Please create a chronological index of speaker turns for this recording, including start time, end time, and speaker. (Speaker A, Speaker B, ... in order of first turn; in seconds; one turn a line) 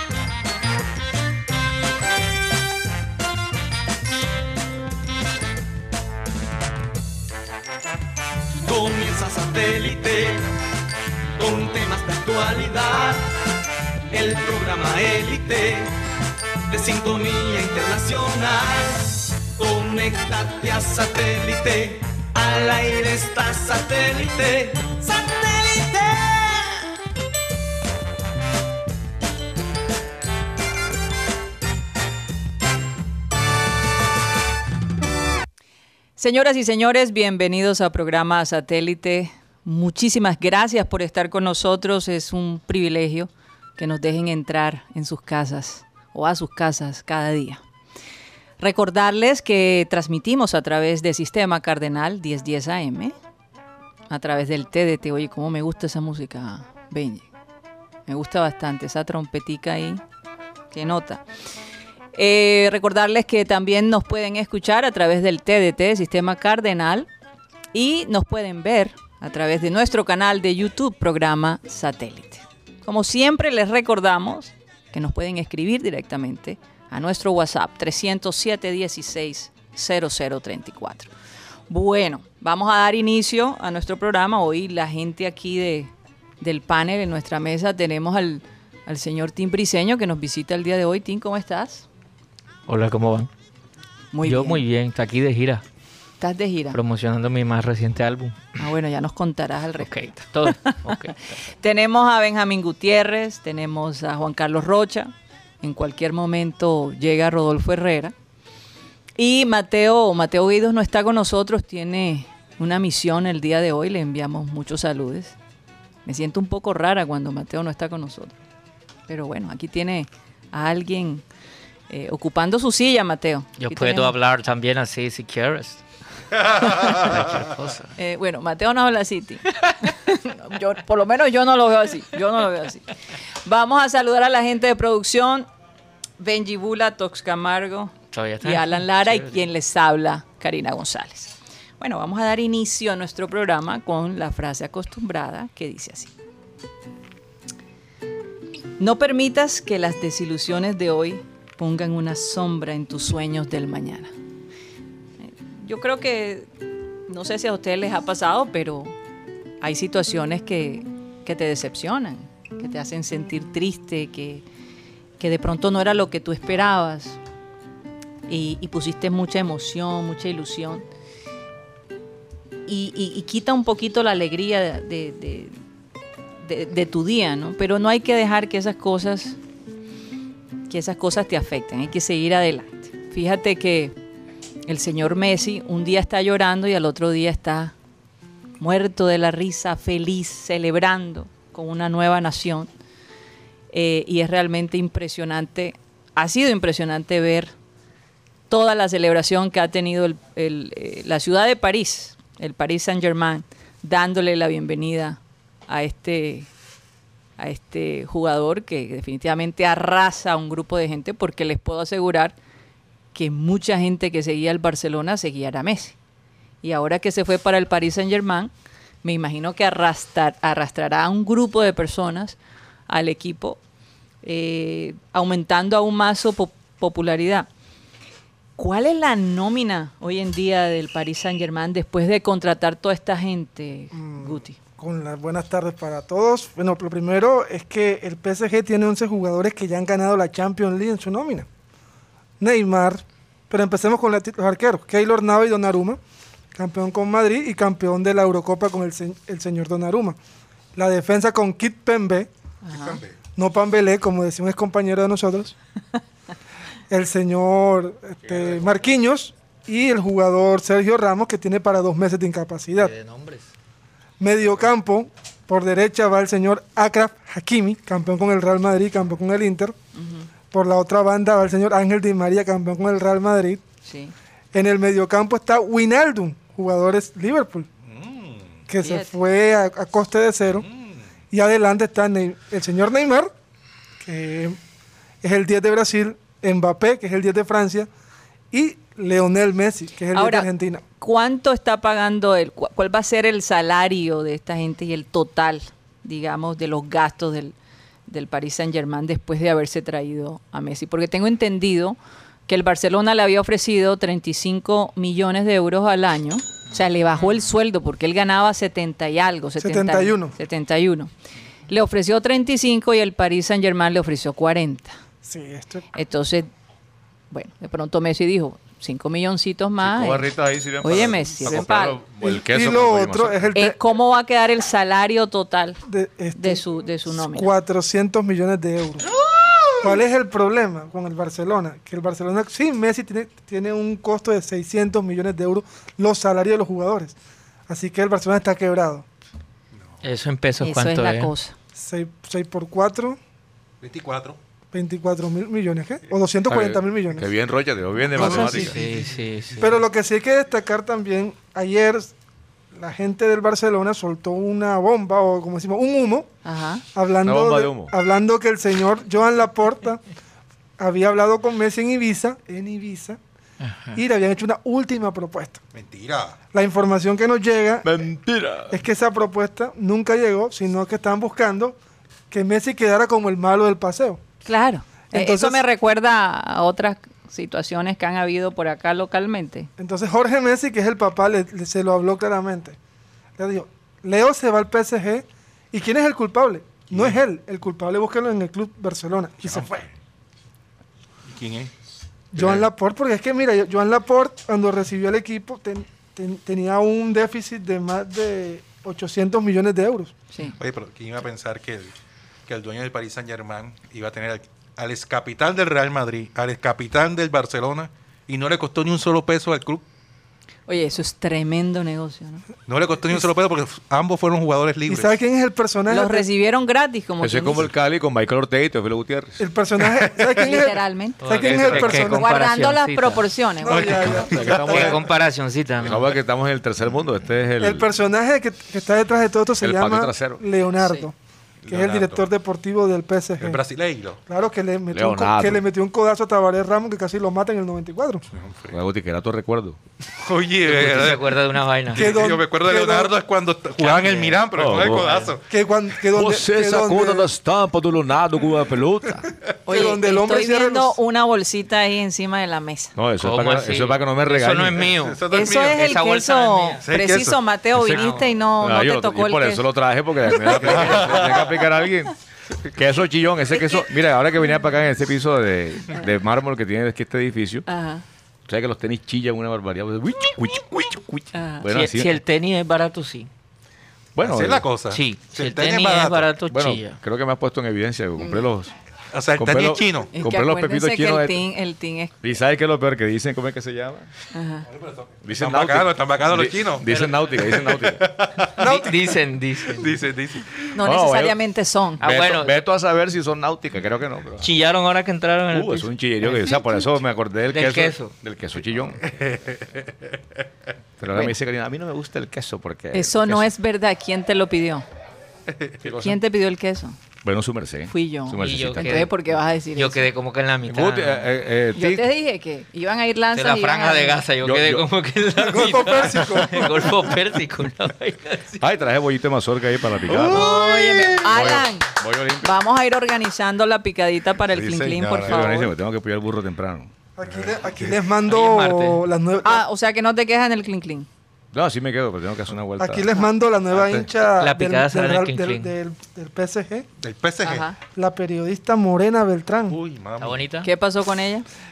Speaker A: 8.7-10.5
Speaker A: 11.4-13.3
Speaker A: 14.1-15.9
Speaker A: 16.7-26.7
Speaker B: 36.2-47.6
Speaker B: 48.6-53.1
Speaker B: 54.1-57.2
Speaker B: 58.1-60.0
Speaker B: 60.7-61.2
Speaker B: 62.1-67.1
Speaker B: 67.7-81.1
Speaker B: 81.7-91.8
Speaker C: 92.7-93.3
Speaker B: 94.1-94.6
Speaker C: 94.2-95.6
Speaker B: 96.2-96.8
Speaker C: 96.7-98.6
Speaker B: 98.6-108.1
Speaker C: 99.8-101.2
Speaker B: 109.2-115.3
Speaker B: 116.0-118.3
Speaker B: 119.1-121.2
Speaker B: 121.9-124.1
Speaker C: 123.6-125.8
Speaker C: 126.4-127.9
Speaker B: 128.0-132.9
Speaker B: 133.5-135.5
Speaker B: 136.2-146.1
Speaker C: 138.1-139.4
Speaker B: 148.8-154.1
Speaker B: 155.2-156.5
Speaker B: 157.1-158.9
Speaker B: 159.6-164.4
Speaker B: 165.2-167.2
Speaker B: 168.3-170.8
Speaker B: 172.7-175.6
Speaker B: 176.4-179.4
Speaker B: 180.7-183.9
Speaker B: 184.7-187.7
Speaker B: 188.6-192.7
Speaker B: 193.7-197.5
Speaker B: 198.5-206.5
Speaker B: 207.4-212.4
Speaker B: 213.1-215.9
Speaker B: 216.6-218.5
Speaker B: 219.0-222.4
Speaker B: 222.9-223.6
Speaker B: 224.2-227.5
Speaker B: 228.6-234.6
Speaker D: 233.9-241.5
Speaker D: 242.4-246.0
Speaker D: 246.5-250.2
Speaker D: 250.8-252.3
Speaker B: 252.6-253.0
Speaker E: 252.7-253.2
Speaker D: 253.4-255.6
Speaker D: 256.9-262.9
Speaker C: 262.8-263.5
Speaker D: 264.2-269.8
Speaker B: 269.9-270.3
Speaker D: 270.5-273.6
Speaker B: 273.9-274.1
Speaker D: 274.5-277.7
Speaker E: 277.9-278.6
Speaker D: 278.7-280.7
Speaker B: 278.8-279.1
Speaker E: 280.5-281.0
Speaker D: 281.3-283.3
Speaker D: 284.0-284.6
Speaker D: 285.2-287.9
Speaker D: 288.5-290.8
Speaker B: 290.1-297.6
Speaker B: 298.1-311.1
Speaker D: 309.6-310.4
Speaker B: 311.7-315.0
Speaker D: 315.2-315.9
Speaker B: 315.9-316.5
Speaker B: 317.3-320.3
Speaker F: 319.8-323.5
Speaker B: 320.8-322.0
Speaker D: 322.2-323.8
Speaker B: 323.6-325.8
Speaker D: 325.9-329.1
Speaker B: 326.4-327.5
Speaker D: 329.8-337.1
Speaker D: 337.7-339.1
Speaker C: 340.0-341.3
Speaker B: 340.6-341.6
Speaker D: 341.8-343.2
Speaker E: 343.8-344.4
Speaker D: 344.7-347.3
Speaker F: 346.5-348.9
Speaker E: 348.2-349.0
Speaker C: 348.2-349.8
Speaker D: 348.2-348.7
Speaker D: 349.6-352.1
Speaker D: 352.7-356.3
Speaker B: 356.4-356.8
Speaker D: 356.9-360.0
Speaker F: 357.2-357.9
Speaker D: 360.8-363.2
Speaker C: 363.6-364.0
Speaker D: 363.9-365.6
Speaker E: 365.7-366.4
Speaker D: 366.5-368.0
Speaker F: 367.8-368.8
Speaker D: 368.7-371.8
Speaker D: 372.3-374.2
Speaker B: 374.4-379.7
Speaker D: 375.1-375.6
Speaker D: 379.8-382.8
Speaker D: 383.4-389.9
Speaker E: 386.9-387.2
Speaker E: 391.3-391.7
Speaker D: 392.3-400.1
Speaker E: 392.3-392.7
Speaker E: 400.6-401.9
Speaker E: 402.5-409.9
Speaker B: 410.7-412.4
Speaker E: 412.7-415.1
Speaker D: 414.9-416.3
Speaker B: 415.9-417.6
Speaker F: 417.2-419.4
Speaker D: 419.4-422.3
Speaker B: 420.3-424.2
Speaker C: 421.2-423.3
Speaker D: 423.6-425.0
Speaker E: 423.6-425.0
Speaker F: 424.3-425.0
Speaker C: 424.4-426.1
Speaker F: 425.8-427.9
Speaker D: 427.6-431.1
Speaker F: 429.6-430.4
Speaker E: 431.6-432.2
Speaker D: 431.7-433.6
Speaker E: 433.4-434.2
Speaker D: 434.3-438.2
Speaker F: 434.9-435.6
Speaker E: 438.3-438.8
Speaker F: 438.7-439.8
Speaker E: 440.2-445.5
Speaker C: 440.6-442.3
Speaker D: 441.9-443.1
Speaker C: 443.8-445.3
Speaker F: 444.5-445.1
Speaker D: 445.5-447.3
Speaker F: 446.1-449.3
Speaker D: 449.6-451.0
Speaker B: 449.7-452.9
Speaker F: 453.0-454.9
Speaker C: 453.2-456.9
Speaker E: 454.8-455.9
Speaker B: 455.3-459.7
Speaker E: 456.8-457.4
Speaker F: 457.7-462.1
Speaker C: 457.9-458.4
Speaker E: 460.4-461.6
Speaker F: 462.7-467.7
Speaker B: 463.5-463.8
Speaker B: 467.7-468.0
Speaker F: 468.5-472.1
Speaker B: 471.3-471.7
Speaker C: 471.7-473.3
Speaker F: 474.1-474.7
Speaker E: 474.2-476.4
Speaker C: 474.9-477.0
Speaker F: 476.5-478.7
Speaker B: 478.2-478.4
Speaker E: 479.1-480.1
Speaker F: 479.4-481.5
Speaker B: 480.1-482.1
Speaker F: 482.2-484.1
Speaker B: 484.3-484.7
Speaker E: 484.7-488.8
Speaker F: 485.2-488.1
Speaker C: 488.5-489.9
Speaker D: 488.6-488.9
Speaker E: 489.7-490.8
Speaker B: 490.8-492.0
Speaker F: 490.8-491.4
Speaker C: 492.0-492.6
Speaker F: 492.0-494.5
Speaker C: 494.4-496.6
Speaker F: 495.5-499.0
Speaker C: 497.5-498.2
Speaker E: 499.0-499.9
Speaker F: 501.0-503.5
Speaker B: 502.9-504.9
Speaker F: 505.8-506.2
Speaker B: 506.0-507.0
Speaker F: 507.2-509.1
Speaker B: 507.9-510.0
Speaker C: 508.4-509.1
Speaker C: 509.8-511.3
Speaker F: 510.6-512.1
Speaker B: 511.7-514.2
Speaker C: 513.3-518.5
Speaker F: 514.4-514.9
Speaker D: 515.4-516.8
Speaker F: 518.6-520.6
Speaker E: 520.0-521.3
Speaker B: 520.3-525.7
Speaker F: 521.2-522.5
Speaker E: 524.5-525.7
Speaker F: 525.2-526.9
Speaker D: 527.2-529.6
Speaker E: 527.3-528.0
Speaker C: 528.3-529.0
Speaker B: 529.4-531.1
Speaker F: 531.5-533.1
Speaker D: 532.8-536.9
Speaker C: 534.4-535.7
Speaker E: 537.0-537.7
Speaker B: 537.4-537.8
Speaker D: 538.0-539.8
Speaker E: 539.7-540.5
Speaker C: 540.2-540.7
Speaker B: 540.6-541.5